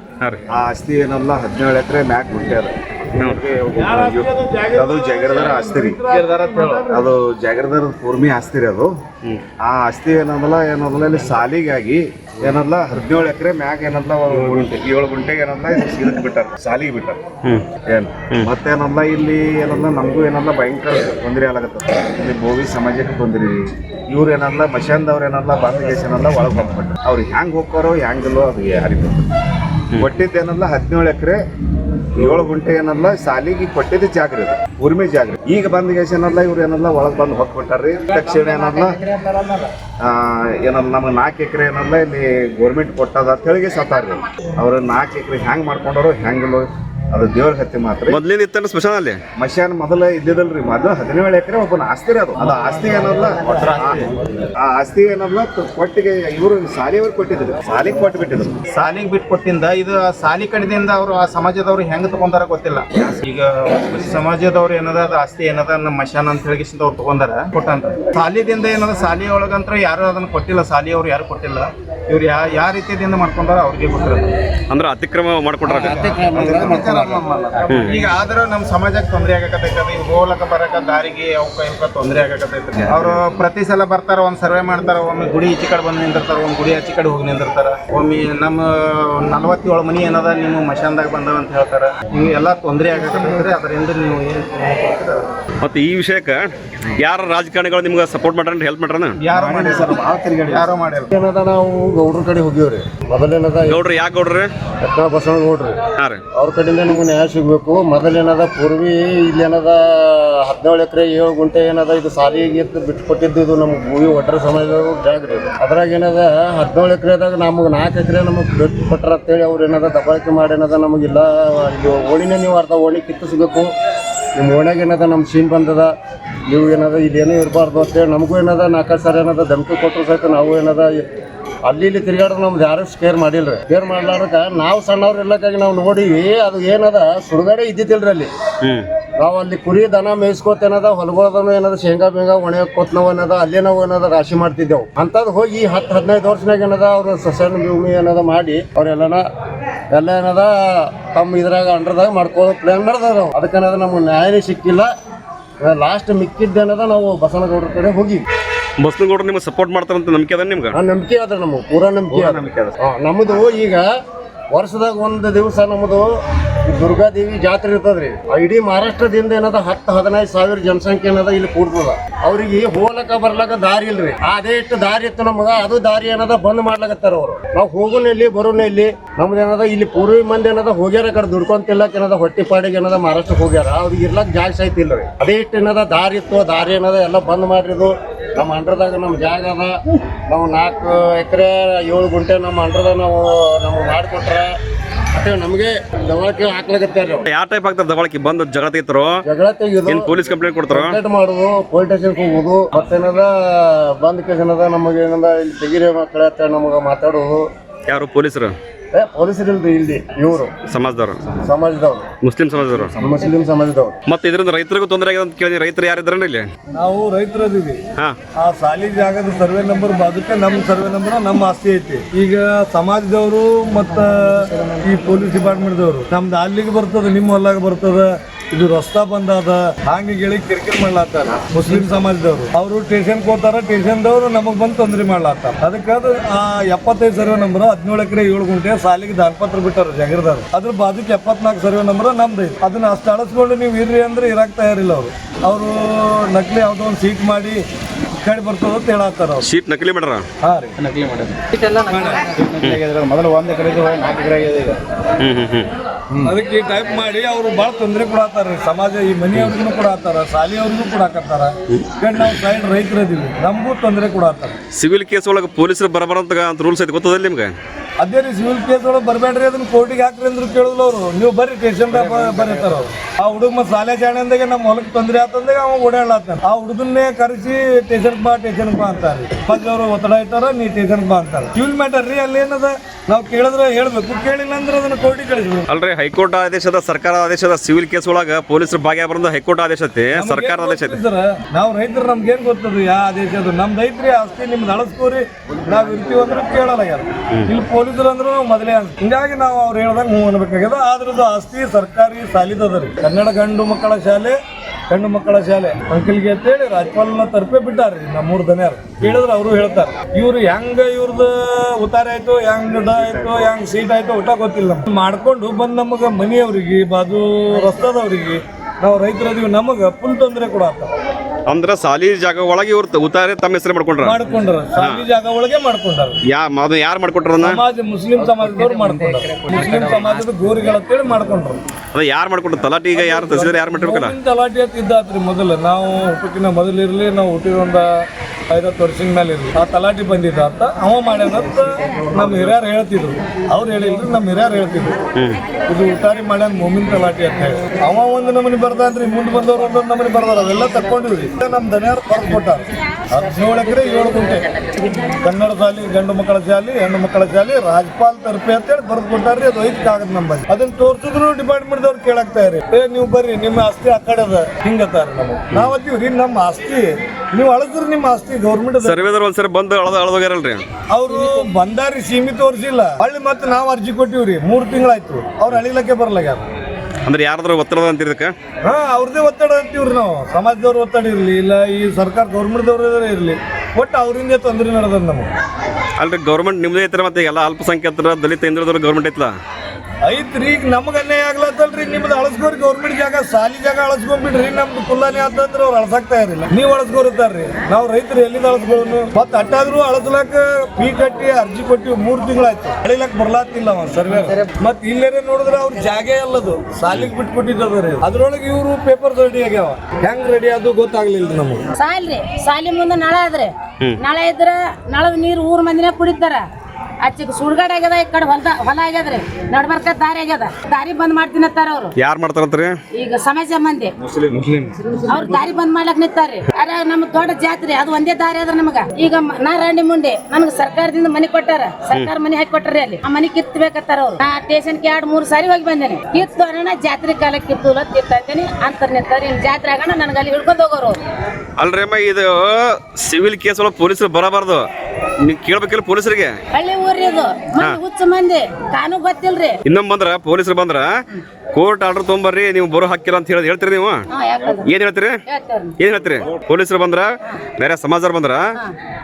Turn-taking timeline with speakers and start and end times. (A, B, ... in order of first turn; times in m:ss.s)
0:00.5-0:06.0 A
0:03.8-0:07.0 B
0:06.1-0:06.9 C
0:06.9-0:08.9 A
0:09.6-0:17.2 A
0:17.4-0:17.7 D
0:17.9-0:29.3 A
0:30.0-0:31.4 A
0:32.2-0:39.0 A
0:38.1-0:39.7 C
0:40.0-0:48.2 A
0:48.1-0:49.2 D
0:49.3-0:58.6 A
0:53.4-0:54.2 C
0:58.7-1:14.3 C
1:14.7-1:16.1 D
1:15.6-1:35.3 C
1:15.7-1:17.2 E
1:17.7-1:17.9 D
1:35.6-1:39.2 D
1:39.2-1:41.1 C
1:39.3-1:40.7 A
1:41.1-1:43.8 E
1:43.6-1:44.5 D
1:44.8-1:45.8 E
1:46.4-2:03.7 E
2:04.4-2:05.9 E
2:06.5-2:11.0 E
2:11.6-2:18.3 E
2:18.6-2:18.9 D
2:19.2-2:29.2 E
2:29.9-2:34.9 E
2:35.6-2:38.2 E
2:38.8-2:40.8 D
2:40.7-2:43.8 E
2:42.1-2:42.7 D
2:44.5-2:46.1 E
2:46.6-3:09.7 E
3:10.3-3:14.5 E
3:15.1-3:17.3 E
3:17.2-3:19.2 D
3:19.2-3:20.1 E
3:19.8-3:21.0 D
3:20.7-3:27.5 E
3:27.9-3:28.5 D
3:28.9-3:30.6 E
3:30.6-3:31.3 D
3:31.4-3:32.1 E
3:32.2-3:33.0 D
3:33.0-3:34.0 E
3:34.1-3:36.5 D
3:36.7-3:37.8 B
3:38.4-4:07.6 B
4:08.2-4:09.5 B
4:09.4-4:10.2 D
4:10.4-4:10.7 B
4:10.8-4:11.7 C
4:11.8-4:12.3 B
4:12.3-4:14.8 C
4:15.2-4:15.7 D
4:16.2-4:24.6 B
4:24.8-4:27.5 D
4:28.0-4:45.7 B
4:31.9-4:32.7 C
4:45.7-4:51.0 D
4:50.1-5:04.4 B
5:04.9-5:20.9 B
5:12.9-5:13.5 A
5:21.5-5:24.2 D
5:24.0-5:26.2 B
5:24.8-5:25.0 D
5:26.3-5:27.6 D
5:27.4-5:31.6 B
5:31.9-5:34.1 D
5:32.9-5:44.9 B
5:45.6-5:54.5 B
5:55.1-6:09.1 B
6:08.8-6:10.6 D
6:10.9-6:16.5 B
6:17.0-6:18.3 D
6:18.6-6:25.3 B
6:26.0-6:29.3 D
6:30.0-6:51.6 B
6:51.8-6:56.4 F
6:57.0-7:01.9 F
7:02.0-7:02.8 D
7:02.9-7:03.9 F
7:04.0-7:04.4 A
7:04.3-7:04.9 C
7:05.0-7:21.0 F
7:21.6-7:24.7 D
7:25.2-7:26.4 D
7:26.5-7:29.6 F
7:29.6-7:30.9 D
7:31.5-7:34.0 D
7:34.1-7:34.7 F
7:34.6-7:35.2 D
7:35.3-7:35.8 F
7:35.8-7:38.6 D